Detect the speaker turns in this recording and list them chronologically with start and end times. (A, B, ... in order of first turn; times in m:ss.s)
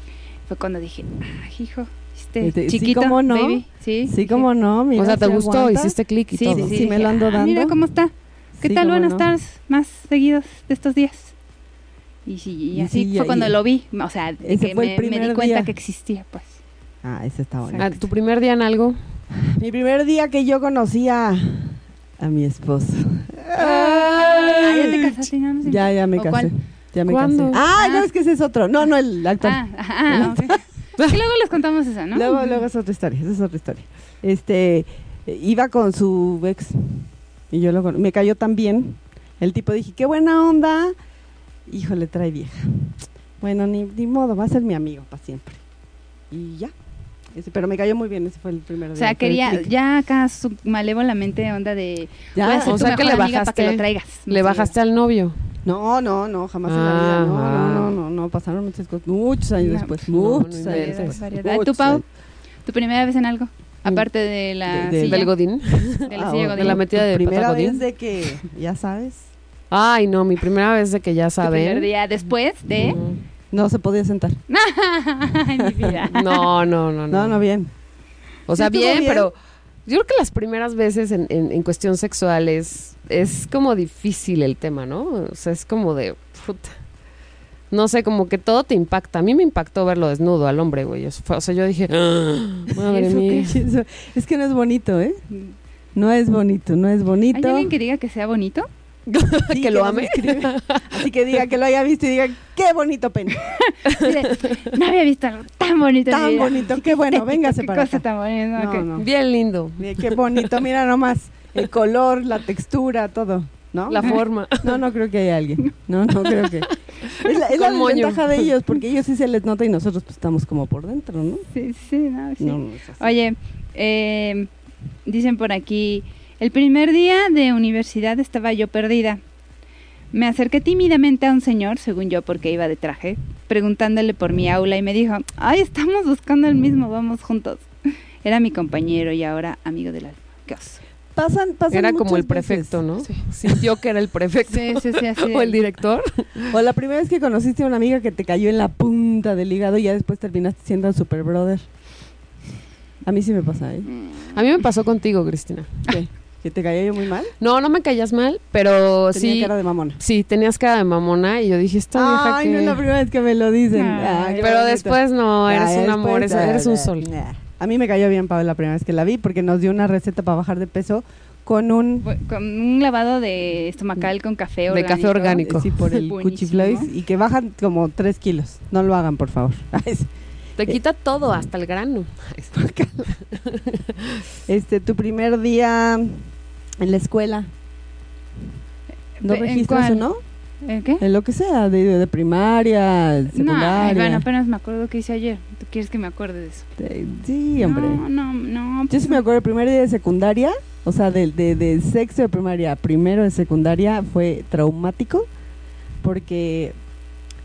0:00.5-0:04.5 A
0:02.4-0:06.0 B
0:04.9-0:06.9 C
0:06.3-0:11.3 A
0:06.5-0:07.8 B
0:08.6-0:09.3 B
0:12.2-0:16.6 A
0:12.7-0:13.6 B
0:14.4-0:15.7 B
0:17.0-0:18.0 B
0:17.7-0:18.0 A
0:17.8-0:19.0 C
0:19.5-0:25.0 B
0:23.6-0:26.5 A
0:24.1-0:24.9 C
0:25.6-0:30.6 B
0:27.0-0:27.6 C
0:27.8-0:28.1 A
0:29.4-0:32.6 A
0:32.1-0:40.9 B
0:41.6-0:45.6 B
0:46.3-0:46.7 B
0:47.3-0:49.7 B
0:48.9-0:54.7 A
0:52.3-0:53.1 B
0:52.4-0:55.4 C
0:55.6-1:02.0 B
0:56.7-0:58.0 C
0:59.6-1:00.0 A
1:00.1-1:01.2 C
1:00.6-1:02.0 A
1:02.6-1:05.3 A
1:04.6-1:05.3 B
1:05.0-1:07.8 C
1:06.0-1:06.8 A
1:06.1-1:09.3 B
1:09.7-1:11.9 C
1:11.4-1:13.0 A
1:12.7-1:13.2 C
1:13.5-1:14.4 B
1:14.5-1:16.4 A
1:15.6-1:16.0 B
1:16.1-1:17.4 C
1:17.1-1:17.7 B
1:18.4-1:26.8 C
1:18.6-1:19.3 B
1:27.7-1:33.5 C
1:32.8-1:35.2 B
1:35.9-1:37.7 B
1:37.3-1:38.7 A
1:39.1-1:41.0 C
1:39.5-1:43.5 B
1:43.5-1:48.9 A
1:44.0-1:44.6 C
1:46.0-1:49.1 B
1:49.0-1:50.6 C
1:49.8-2:01.5 B
1:53.9-1:54.8 C
1:56.5-1:58.5 C
2:01.5-2:04.5 A
2:02.4-2:03.1 B
2:05.0-2:09.2 A
2:10.1-2:17.7 A
2:18.2-2:20.8 A
2:21.1-2:22.8 B
2:21.7-2:26.5 C
2:24.5-2:25.6 A
2:26.5-2:31.6 B
2:33.0-2:33.9 B
2:33.9-2:34.4 A
2:34.3-2:35.9 C
2:35.9-2:37.3 B
2:37.4-2:42.8 C
2:39.1-2:40.0 B
2:41.9-2:52.1 B
2:43.7-2:44.5 A
2:44.4-2:47.1 C
2:52.0-2:56.9 A
2:54.7-2:55.9 C
2:55.4-3:00.1 B
3:00.6-3:04.2 C
3:02.5-3:03.1 B
3:04.5-3:06.2 B
3:06.8-3:07.5 B
3:09.2-3:10.0 A
3:09.2-3:10.2 B
3:10.6-3:11.0 A
3:11.0-3:14.2 B
3:13.3-3:16.7 A
3:16.8-3:18.0 B
3:17.6-3:19.2 A
3:18.9-3:25.3 B
3:26.0-3:26.8 B